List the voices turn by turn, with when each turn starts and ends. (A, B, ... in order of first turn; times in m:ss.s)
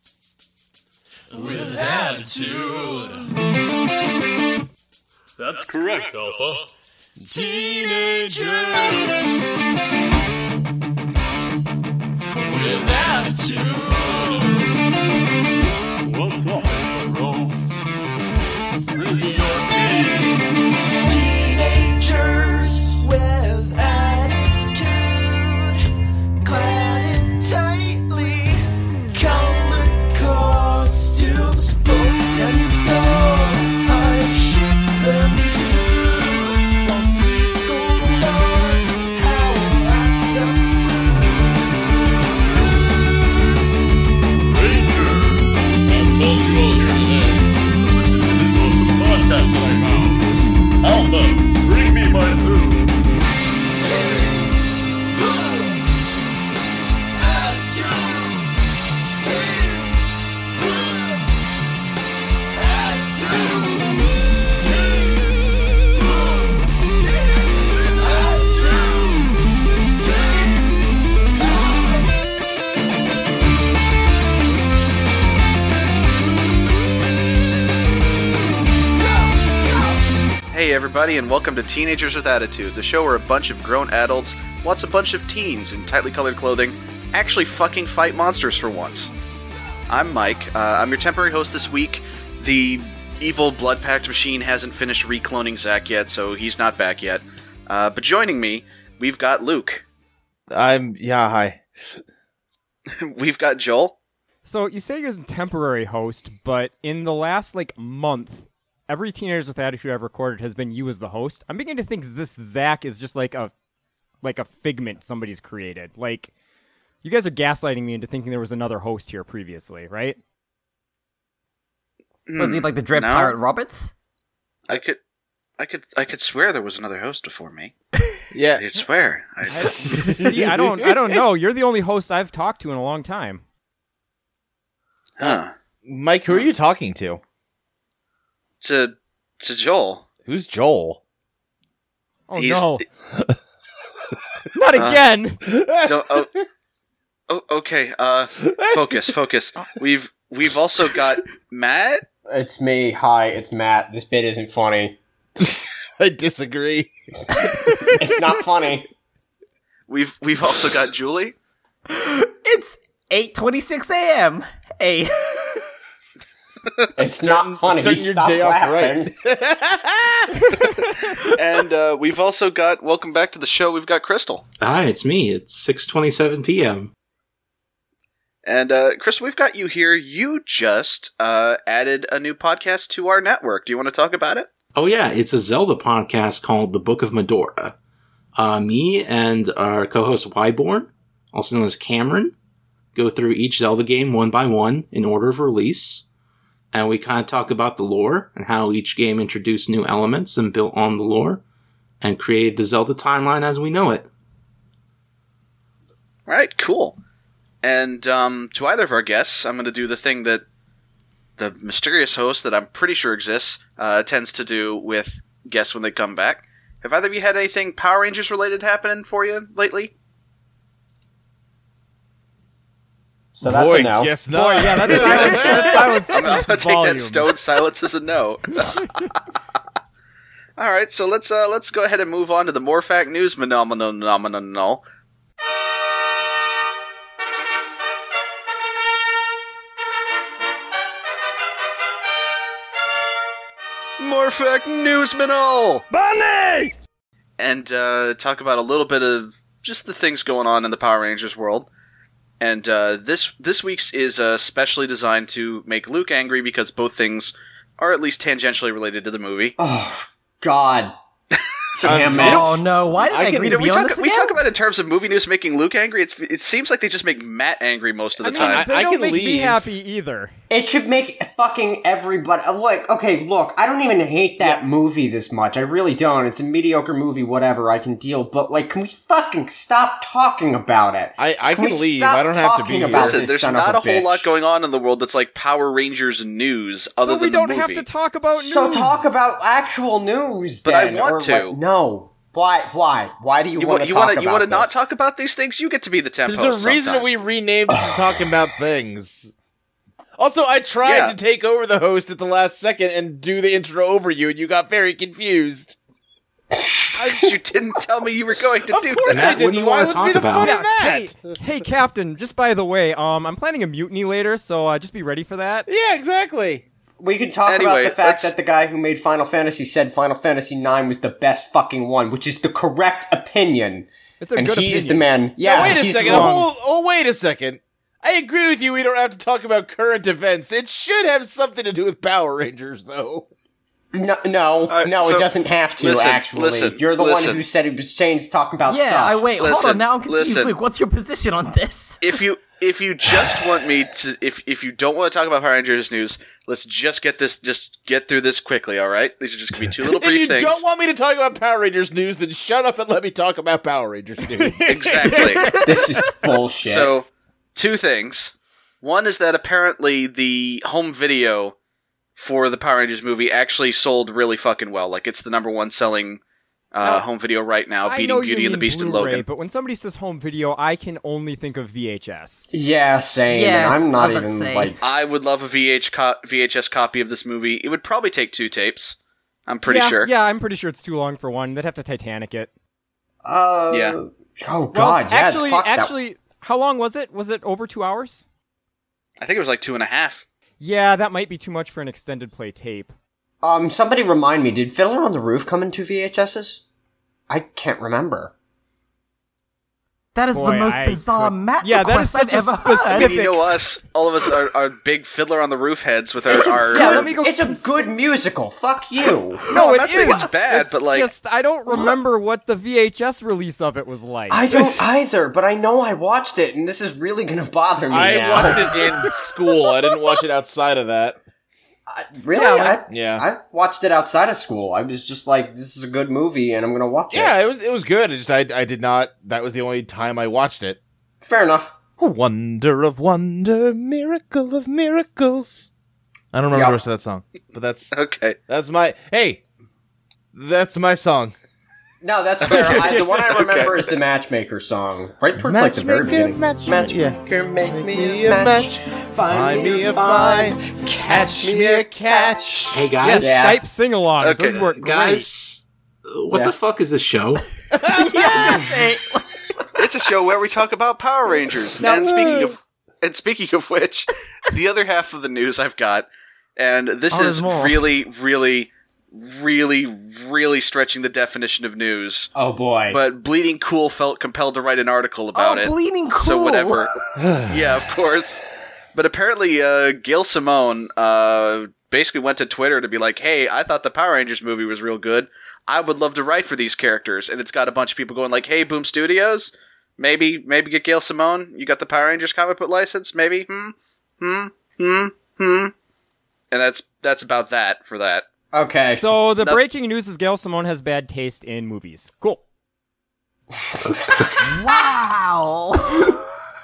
0:01.4-0:02.9 A
0:01.4-0:03.1 B
0:05.4-0:06.7 A
0:07.3-0:09.2 A
0:07.3-0:09.2 B
0:12.4-0:14.4 B
0:14.1-0:14.5 A
0:16.0-0:17.6 A
0:18.9-0:20.5 A
0:21.0-0:25.8 B
0:26.4-0:28.6 B
0:29.1-0:41.8 B
0:42.5-0:43.0 A
0:44.4-0:50.2 A
0:50.8-0:53.0 A
0:53.8-0:55.7 B
0:57.2-0:58.5 B
0:59.2-1:00.0 B
1:00.7-1:01.1 B
1:02.6-1:04.0 B
1:04.6-1:09.3 B
1:10.0-1:10.7 B
1:11.3-1:12.1 B
1:20.5-1:29.1 C
1:29.9-1:39.8 C
1:40.5-1:41.6 D
1:43.0-1:44.0 C
1:44.5-1:53.5 E
1:54.2-1:56.3 E
1:57.0-2:00.2 E
2:02.3-2:03.4 C
2:02.4-2:03.9 F
2:04.7-2:05.0 C
2:05.6-2:07.7 C
2:08.3-2:08.7 D
2:08.6-2:10.2 C
2:09.5-2:13.4 E
2:10.0-2:11.0 D
2:15.2-2:15.5 C
2:15.8-2:17.2 D
2:18.6-2:20.1 C
2:20.3-2:21.0 D
2:22.3-2:22.8 E
2:22.4-2:22.8 C
2:24.5-2:25.4 E
2:24.8-2:25.0 C
2:25.5-2:26.2 D
2:25.8-2:26.3 C
2:27.3-2:32.1 C
2:28.6-2:29.0 D
2:32.3-2:35.0 G
2:35.4-2:36.9 D
2:38.0-2:38.9 G
2:39.9-2:41.4 C
2:41.9-2:45.6 F
2:47.0-2:49.1 G
2:47.2-2:50.6 D
2:51.1-2:54.4 C
2:54.6-2:56.9 H
2:58.4-3:04.5 C
3:04.8-3:07.8 H
3:08.4-3:12.3 H
3:13.0-3:16.1 H
3:16.7-3:21.4 H
3:22.0-3:24.1 H
3:26.3-3:27.0 C
3:27.6-3:30.4 C
3:31.4-3:39.9 C
3:43.4-3:44.1 G
3:43.4-3:46.0 D
3:44.3-3:47.3 E
3:45.1-3:48.9 C
3:50.6-3:54.8 C
4:04.0-4:05.9 C
4:06.0-4:06.7 B
4:07.4-4:11.7 C
4:12.4-4:19.6 C
4:19.6-4:20.9 G
4:21.8-4:22.6 G
4:21.8-4:23.7 D
4:22.2-4:24.4 F
4:23.4-4:28.6 C
4:28.2-4:30.3 E
4:28.3-4:29.7 D
4:30.5-4:44.3 G
4:41.2-4:43.2 D
4:42.9-4:47.9 C
4:47.0-4:49.1 E
4:48.4-4:54.7 G
4:50.6-4:51.6 C
4:53.6-4:57.1 C
4:56.3-4:59.3 D
5:00.2-5:05.8 D
5:00.8-5:01.2 C
5:07.0-5:09.4 C
5:08.7-5:11.4 D
5:09.1-5:10.7 H
5:10.4-5:15.7 E
5:15.7-5:16.6 D
5:17.0-5:26.4 G
5:17.5-5:18.3 C
5:24.2-5:26.5 E
5:25.5-5:33.2 D
5:33.9-5:39.3 G
5:34.7-5:35.3 C
5:35.8-5:37.4 C
5:38.7-5:42.0 F
5:39.4-5:40.5 C
5:42.0-5:50.6 C
5:49.7-5:55.8 D
5:54.7-5:55.5 C
5:55.6-5:56.9 G
5:56.6-6:01.6 C
6:02.2-6:06.2 C
6:06.7-6:09.2 C
6:07.9-6:12.5 E
6:12.5-6:14.8 G
6:13.3-6:14.8 F
6:14.8-6:19.0 C
6:19.5-6:20.1 C
6:19.6-6:22.5 E
6:23.2-6:25.9 G
6:23.7-6:24.0 C
6:24.7-6:28.2 E
6:29.2-6:30.2 C
6:30.6-6:32.9 E
6:33.4-6:36.6 G
6:37.3-6:38.3 G
6:40.2-6:43.2 F
6:40.3-6:43.5 E
6:43.0-6:47.1 C
6:46.3-6:49.4 G
6:46.7-6:47.8 E
6:49.5-6:54.6 E
6:49.5-6:51.1 C
6:54.3-6:58.8 G
6:57.9-7:01.2 D
7:01.9-7:07.3 G
7:02.4-7:02.8 E
7:02.9-7:03.2 D
7:07.1-7:10.8 D
7:11.2-7:11.8 G
7:12.0-7:15.7 D
7:16.3-7:17.9 D
7:16.5-7:16.8 G
7:17.9-7:18.4 C
7:18.5-7:19.4 D
7:20.3-7:21.3 D
7:22.0-7:33.6 G
7:22.5-7:23.8 C
7:22.5-7:22.8 E
7:25.4-7:32.8 D
7:32.7-7:33.5 H
7:33.0-7:35.3 E
7:34.2-7:34.6 C
7:34.6-7:37.5 H
7:37.7-7:38.7 D
7:37.9-7:39.2 F
7:39.8-7:52.3 C
7:41.8-7:42.1 E
7:41.9-7:42.5 D
7:47.1-7:47.8 F
7:52.4-7:53.0 G
7:52.9-8:15.7 C
7:55.4-7:57.1 F
7:57.2-7:57.6 D
8:16.5-8:18.2 C
8:18.5-8:19.1 G
8:18.9-8:22.4 E
8:24.5-8:26.2 F